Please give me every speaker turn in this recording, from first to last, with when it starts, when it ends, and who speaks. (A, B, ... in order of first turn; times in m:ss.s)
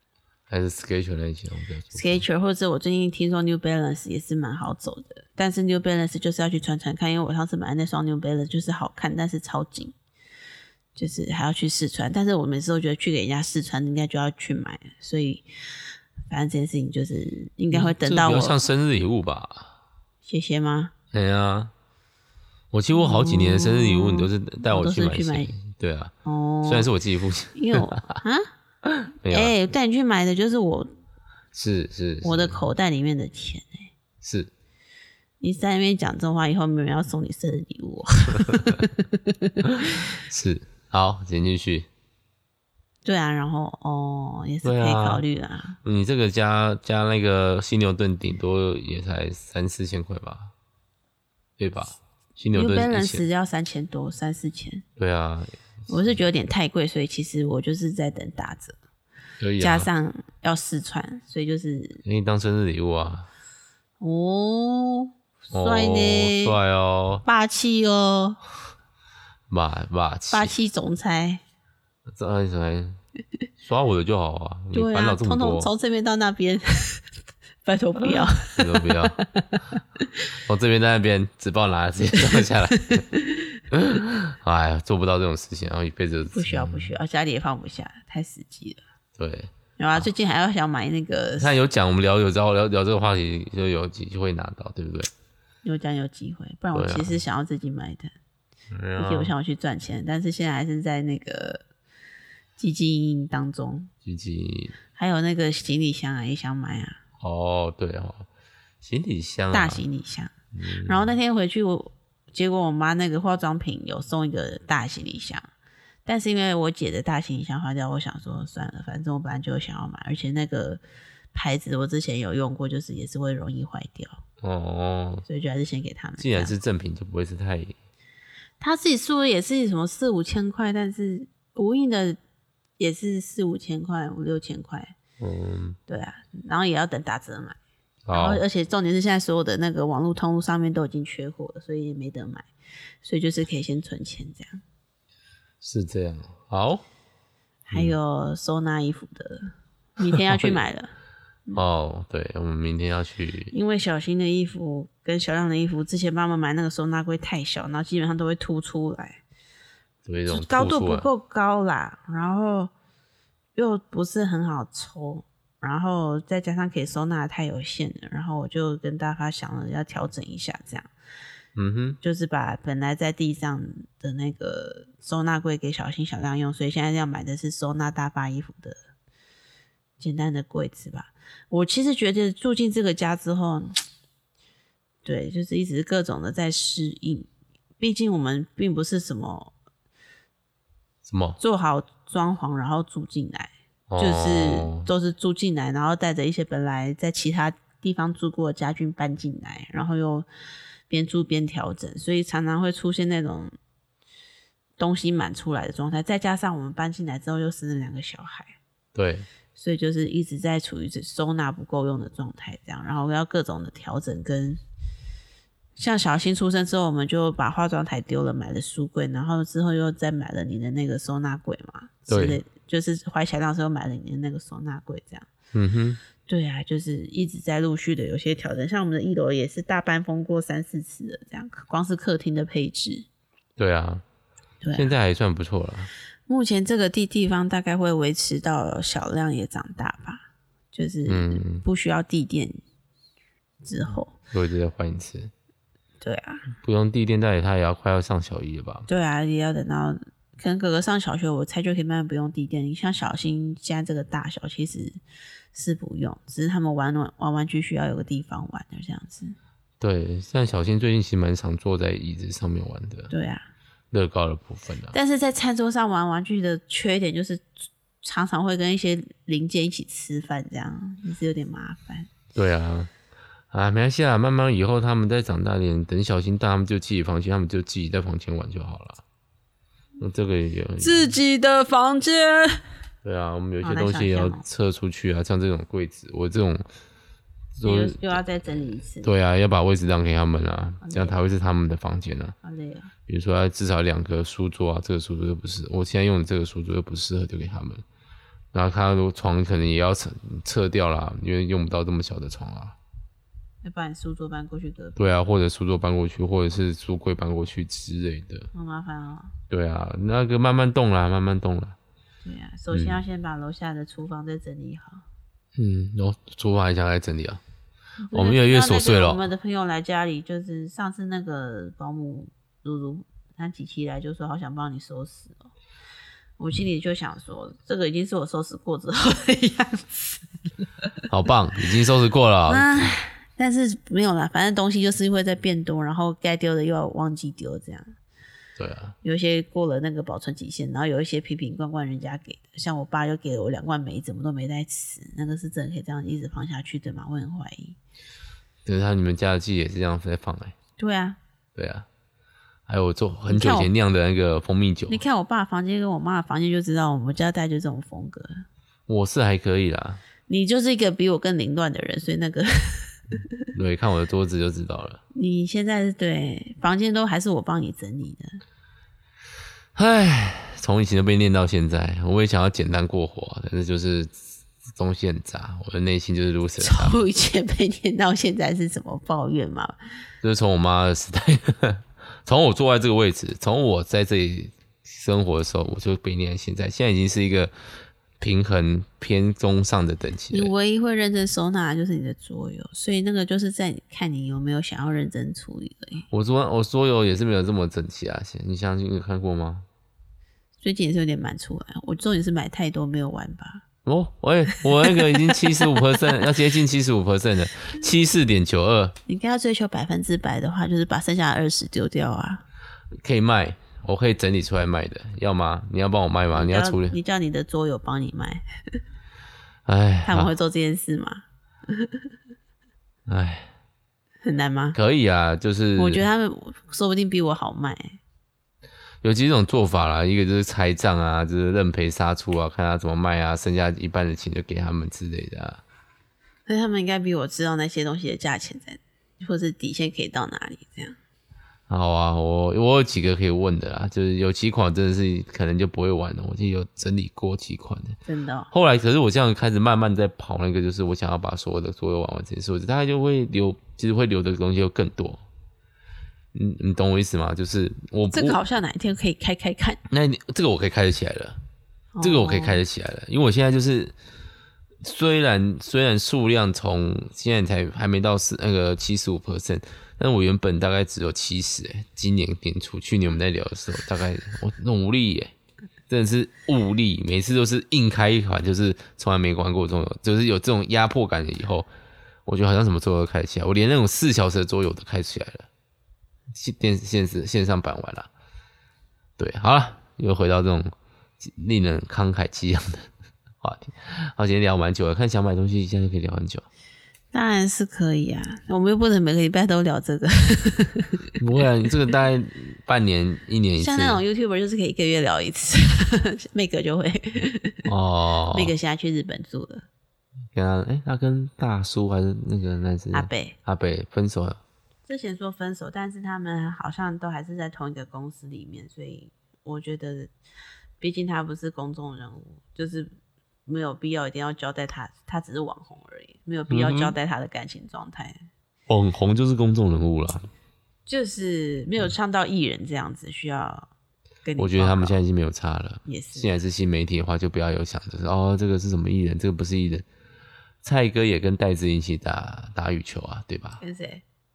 0:00.5-0:02.2 A
0:01.9-0:09.9 B
0:11.0-0:18.6 B
0:17.7-0:19.7 A
0:20.2-0:20.9 B
0:21.1-0:21.7 A
0:22.7-0:26.1 A
0:22.9-0:25.5 B
0:26.2-0:26.9 B
0:26.6-0:28.2 A
0:27.5-0:28.5 B
0:28.8-0:29.5 A
0:29.3-0:30.9 B
0:31.5-0:32.6 A
0:32.2-0:33.9 B
0:34.2-0:34.5 A
0:35.4-0:40.1 B
0:38.5-0:38.8 A
0:39.7-0:41.9 A
0:43.0-0:45.8 B
0:44.6-0:45.2 A
0:45.8-0:50.5 A
0:51.6-0:53.2 A
0:52.5-0:54.8 B
0:55.0-0:56.2 A
0:55.9-0:58.8 B
0:59.4-0:59.9 A
0:59.6-1:02.0 B
1:02.0-1:03.3 A
1:04.0-1:06.6 B
1:05.5-1:07.2 A
1:07.2-1:08.4 B
1:09.5-1:10.5 A
1:10.3-1:11.4 B
1:12.1-1:13.0 A
1:13.6-1:15.7 A
1:14.7-1:17.1 B
1:17.6-1:20.1 B
1:18.5-1:19.2 A
1:20.4-1:23.0 A
1:22.3-1:23.6 B
1:23.7-1:26.9 A
1:26.3-1:28.8 B
1:29.2-1:30.1 A
1:29.8-1:31.5 B
1:31.4-1:35.1 A
1:35.6-1:38.1 B
1:36.7-1:37.2 A
1:38.7-1:39.3 A
1:39.0-1:41.6 B
1:42.6-1:43.9 B
1:44.0-1:44.8 A
1:44.9-1:47.0 B
1:47.2-1:48.3 A
1:48.8-1:49.8 A
1:49.5-1:50.3 B
1:50.5-1:51.1 A
1:50.8-1:55.5 B
1:56.0-2:00.8 B
2:01.3-2:04.2 B
2:04.4-2:05.2 A
2:05.2-2:06.5 B
2:06.2-2:07.8 A
2:08.6-2:12.2 B
2:12.8-2:14.9 B
2:15.2-2:15.8 A
2:15.9-2:17.6 B
2:18.1-2:18.4 A
2:18.1-2:22.5 B
2:23.0-2:24.6 B
2:25.6-2:26.8 A
2:27.6-2:30.9 B
2:30.1-2:30.6 A
2:31.5-2:33.5 A
2:33.5-2:39.2 B
2:40.0-2:41.1 A
2:40.3-2:42.7 B
2:43.5-2:50.9 B
2:51.6-2:52.0 A
2:52.0-2:58.8 B
3:00.0-3:03.8 B
3:05.0-3:07.3 B
3:07.8-3:09.5 B
3:11.0-3:11.4 A
3:11.4-3:20.3 B
3:13.9-3:14.9 A
3:20.9-3:23.5 B
3:24.8-3:28.6 B
3:28.9-3:29.3 A
3:29.6-3:34.6 B
3:35.8-3:45.3 B
3:42.1-3:42.4 A
3:45.5-3:46.0 A
3:46.3-3:53.0 B
3:53.6-3:54.0 A
3:54.6-3:54.9 B
3:54.7-3:55.9 A
3:56.3-4:02.6 B
4:01.0-4:01.6 A
4:03.6-4:04.1 B
4:04.3-4:05.3 A
4:06.0-4:06.4 B
4:06.6-4:08.9 A
4:08.9-4:15.0 B
4:15.5-4:19.4 B
4:19.8-4:23.1 A
4:23.1-4:23.5 B
4:23.9-4:24.9 A
4:24.9-4:32.1 B
4:32.3-4:32.9 A
4:33.5-4:39.0 A
4:40.0-4:41.0 A
4:40.8-4:42.6 B
4:43.0-4:46.6 A
4:43.6-4:44.4 B
4:47.6-4:52.3 A
4:47.6-4:49.1 B
4:50.8-4:51.2 B
4:52.4-4:52.9 B
4:53.1-4:57.8 A
4:58.5-5:02.8 A
5:03.6-5:05.0 B
5:05.0-5:08.5 A
5:08.5-5:09.3 B
5:09.5-5:11.8 A
5:12.2-5:15.0 B
5:12.7-5:13.0 A
5:15.6-5:17.4 A
5:18.0-5:25.5 B
5:18.1-5:19.2 A
5:26.4-5:30.6 B
5:31.1-5:32.9 A
5:32.5-5:37.9 B
5:38.6-5:39.0 A
5:39.0-5:47.8 B
5:48.6-5:50.5 A
5:50.8-5:51.2 B
5:51.5-5:51.9 A
5:52.7-5:55.0 A
5:53.3-5:53.7 B
5:54.9-5:58.4 B
5:58.9-6:00.0 A
6:00.3-6:03.4 B
6:03.5-6:05.0 A
6:05.1-6:08.4 B
6:09.8-6:14.2 A
6:14.8-6:17.0 A
6:16.6-6:19.8 B
6:20.2-6:27.5 A
6:28.2-6:30.5 A
6:30.3-6:36.1 B
6:36.1-6:39.7 A
6:40.6-6:43.6 B
6:43.8-6:49.0 A
6:45.3-6:45.9 B
6:49.1-6:52.4 B
6:53.0-6:57.0 A
6:56.3-6:58.8 B
6:59.6-7:00.3 A
7:00.0-7:02.0 B
7:03.1-7:03.5 A
7:04.2-7:04.8 B
7:04.7-7:06.0 A
7:05.8-7:08.0 B
7:09.0-7:15.6 A
7:16.4-7:21.0 B
7:21.7-7:28.0 A
7:28.0-7:28.5 B
7:28.5-7:35.2 A
7:36.3-7:38.4 A
7:38.1-7:39.8 B
7:39.9-7:41.4 A
7:41.9-7:42.6 B
7:42.0-7:43.9 A
7:44.8-7:55.3 A
7:55.9-8:01.7 A
8:02.2-8:05.5 A
8:06.3-8:08.1 A
8:09.2-8:12.9 A
8:13.4-8:16.4 A
8:17.1-8:21.0 B
8:21.2-8:24.0 A
8:23.6-8:27.7 B
8:27.6-8:28.5 A
8:28.3-8:29.6 B
8:30.3-8:34.4 A
8:32.9-8:33.4 B
8:34.8-8:40.1 B
8:40.8-8:42.9 B
8:43.5-8:48.2 B
8:46.5-8:46.9 A
8:48.7-8:50.3 A
8:50.9-8:53.7 B
8:54.2-8:55.0 B
8:54.4-8:59.8 A
8:55.8-8:56.3 B
9:00.6-9:03.6 A
9:03.6-9:04.0 B